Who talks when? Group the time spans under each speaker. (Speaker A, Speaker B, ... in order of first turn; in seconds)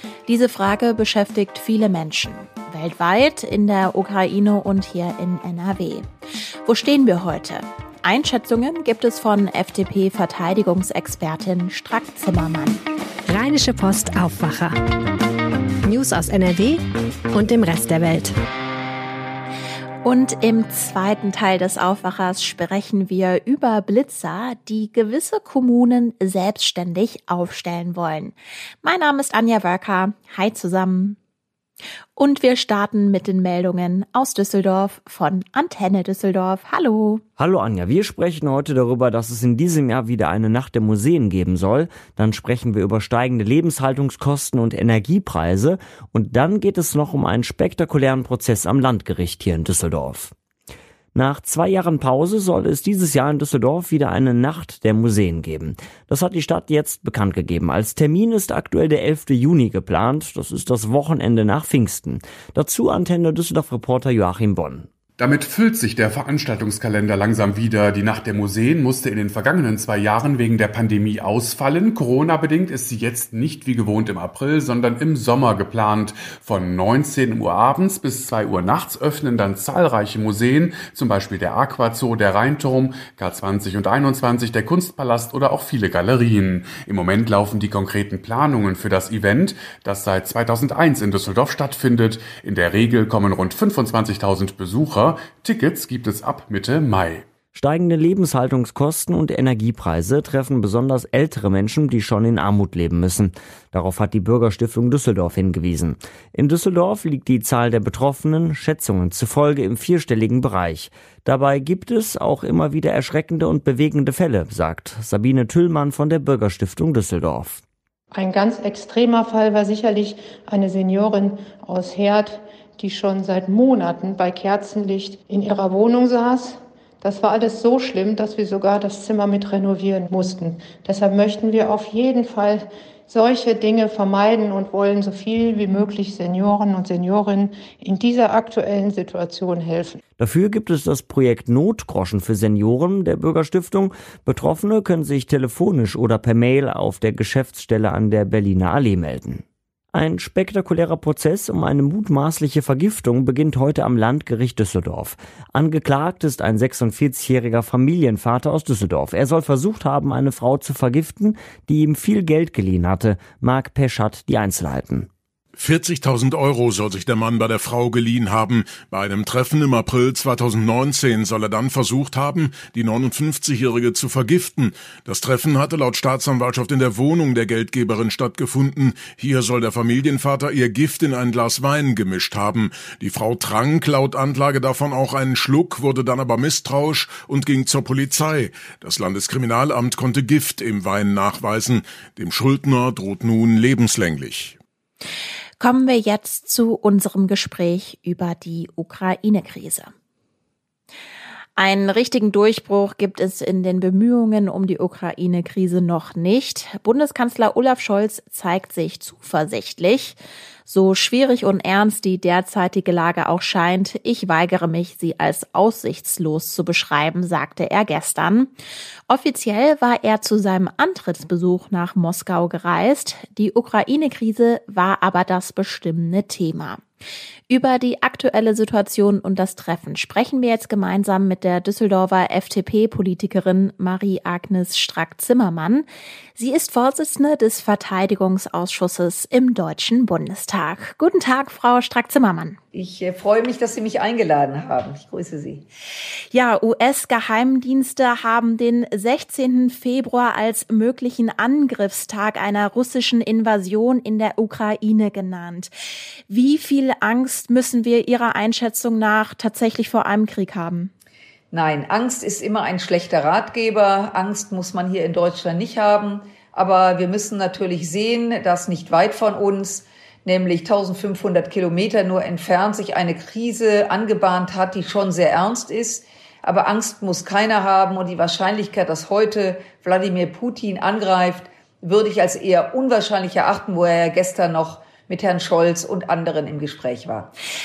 Speaker A: 0.3-6.1, 6.7-12.8, 20.0-31.2, 32.2-37.2, 195.6-199.9, 201.6-218.5, 219.1-226.8, 227.5-235.9, 236.4-242.6, 246.3-255.7, 256.3-260.9
Speaker B: 13.3-14.7, 15.9-16.8, 17.4-18.3
Speaker C: 37.4-50.3, 51.1-64.9, 97.5-117.6, 140.2-165.1
Speaker D: 65.2-97.3
Speaker E: 118.1-140.0
Speaker F: 165.6-194.6
Speaker G: 242.7-245.7, 261.5-287.3